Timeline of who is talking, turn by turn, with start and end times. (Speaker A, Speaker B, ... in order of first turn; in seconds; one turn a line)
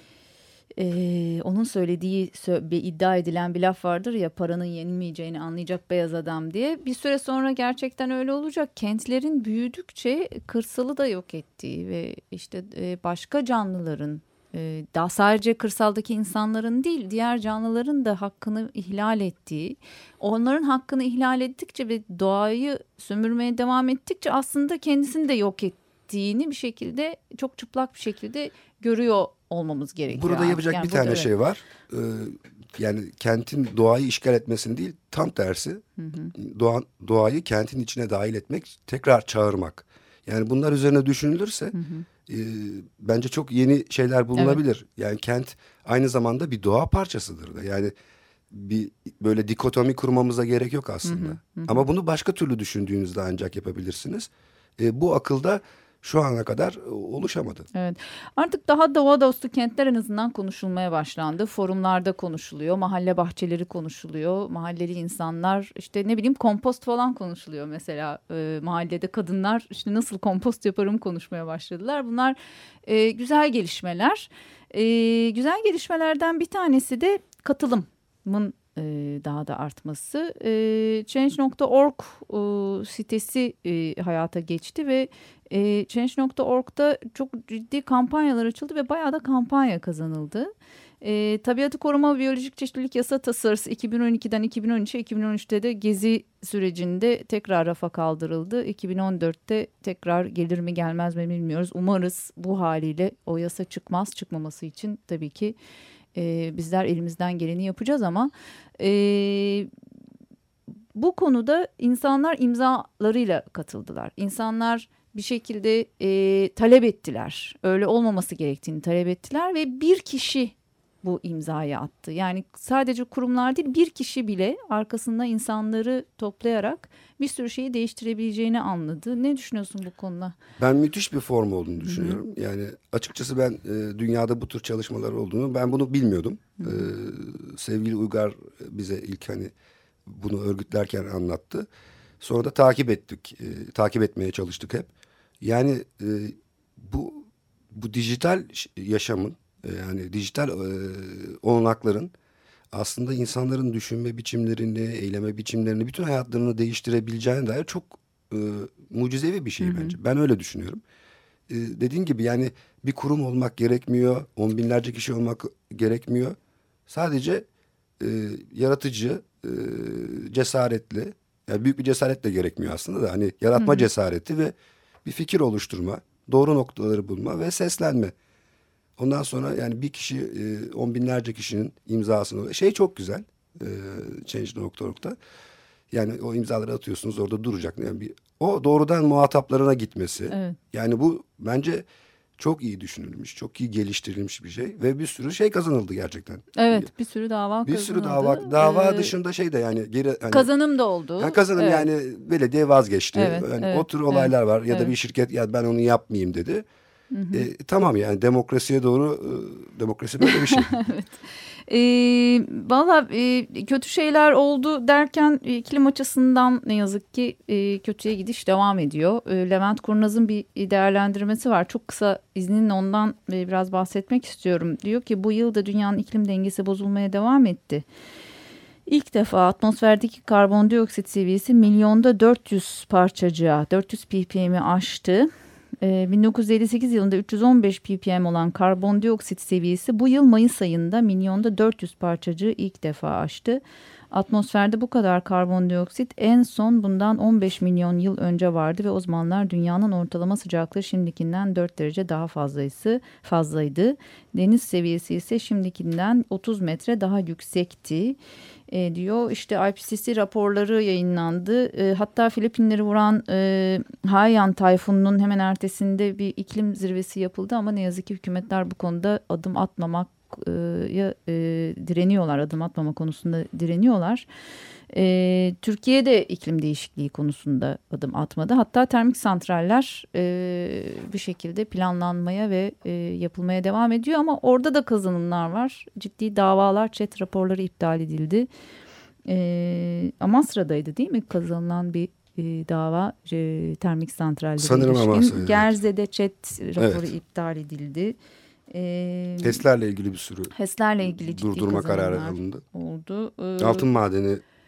Speaker A: 0.8-31.3
Speaker B: 30.1-35.8
Speaker A: 36.0-36.3
Speaker B: 36.4-41.8
Speaker A: 41.7-42.1
Speaker B: 42.3-47.9
Speaker B: 48.5-57.7
Speaker A: 51.0-51.9
Speaker A: 57.7-105.6
Speaker A: 106.2-109.7
Speaker A: 111.0-130.3
Speaker B: 130.6-139.5
Speaker A: 131.8-132.2
Speaker A: 136.6-136.9
Speaker B: 140.1-141.7
Speaker B: 142.2-144.9
Speaker B: 145.4-152.1
Speaker B: 152.7-160.8
Speaker A: 159.6-160.0
Speaker B: 161.5-166.4
Speaker B: 166.9-167.5
Speaker B: 168.0-178.1
Speaker A: 173.6-173.9
Speaker B: 179.0-185.2
Speaker B: 185.9-191.8
Speaker A: 190.3-190.6
Speaker B: 192.4-196.9
Speaker A: 196.6-199.1
Speaker B: 197.7-200.5
Speaker A: 200.3-201.9
Speaker B: 201.2-206.7
Speaker A: 203.2-204.9
Speaker A: 207.1-207.5
Speaker B: 207.3-210.7
Speaker A: 210.2-227.8
Speaker A: 228.9-235.3
Speaker A: 235.8-258.2
Speaker A: 258.7-274.3
Speaker A: 274.9-288.5
Speaker A: 289.3-298.2
Speaker B: 294.6-295.7
Speaker B: 296.8-297.1
Speaker A: 298.7-299.6
Speaker B: 299.4-302.6
Speaker A: 300.5-303.9
Speaker B: 303.6-304.4